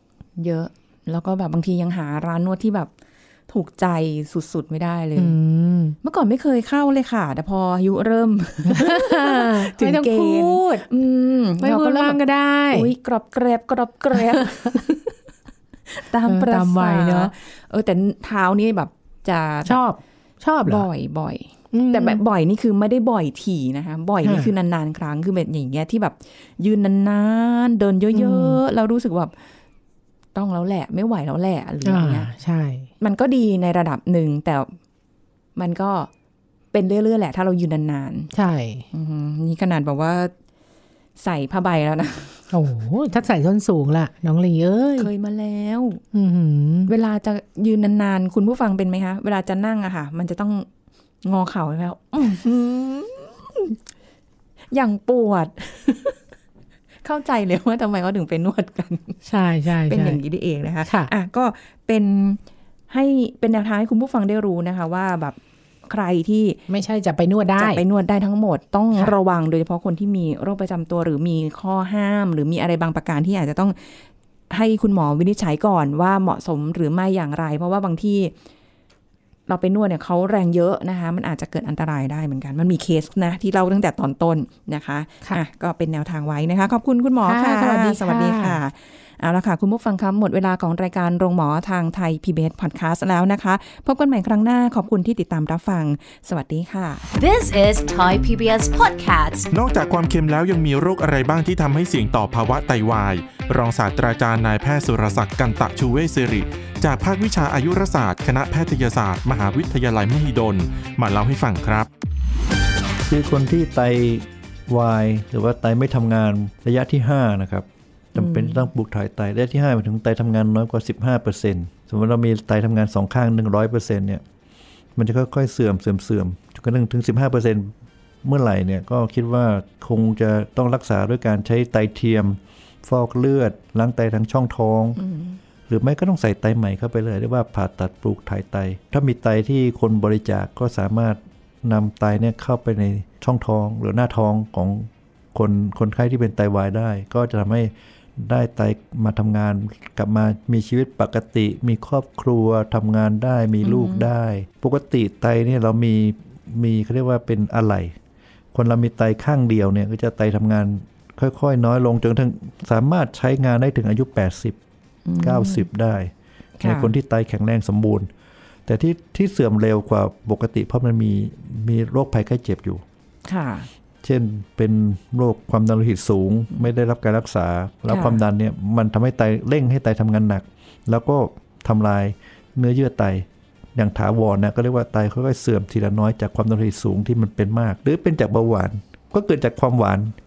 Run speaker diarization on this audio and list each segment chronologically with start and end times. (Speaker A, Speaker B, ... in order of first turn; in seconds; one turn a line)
Speaker A: 0.4-2.9
Speaker A: 3.5-5.3
Speaker B: 5.2-6.0
Speaker A: 6.0-12.2
Speaker B: 8.7-10.8
Speaker B: 11.6-12.9
Speaker A: 12.7-14.9
Speaker B: 14.1-14.8
Speaker A: 15.9-19.8
Speaker B: 16.3-17.3
Speaker B: 19.6-20.9
Speaker A: 20.6-29.3
Speaker B: 21.7-22.2
Speaker B: 24.2-24.5
Speaker B: 28.1-28.6
Speaker A: 30.3-32.3
Speaker B: 31.8-32.9
Speaker A: 33.0-34.7
Speaker A: 35.5-36.1
Speaker A: 36.7-38.3
Speaker B: 38.3-38.9
Speaker A: 38.9-40.3
Speaker A: 41.2-42.5
Speaker B: 42.5-45.1
Speaker A: 45.0-46.0
Speaker B: 46.1-46.9
Speaker A: 46.9-50.7
Speaker A: 51.2-53.8
Speaker A: 54.7-56.2
Speaker A: 57.0-59.2
Speaker B: 59.2-60.2
Speaker A: 59.9-66.6
Speaker B: 60.8-61.1
Speaker B: 66.7-67.8
Speaker A: 67.6-78.3
Speaker A: 79.5-97.0
Speaker B: 87.2-88.6
Speaker C: 97.1-99.5
Speaker D: 99.5-111.9
Speaker E: 113.1-124.2
Speaker A: 118.1-118.7
Speaker E: 125.0-127.7
Speaker E: 128.2-135.0
Speaker A: 135.0-135.4
Speaker E: 135.7-157.9
Speaker A: 153.6-154.1
Speaker E: 158.5-164.6
Speaker A: 165.1-165.7
Speaker E: 165.2-168.1
Speaker A: 166.6-166.9
Speaker E: 168.7-172.8
Speaker A: 173.2-173.7
Speaker E: 174.0-190.1
Speaker A: 177.9-178.2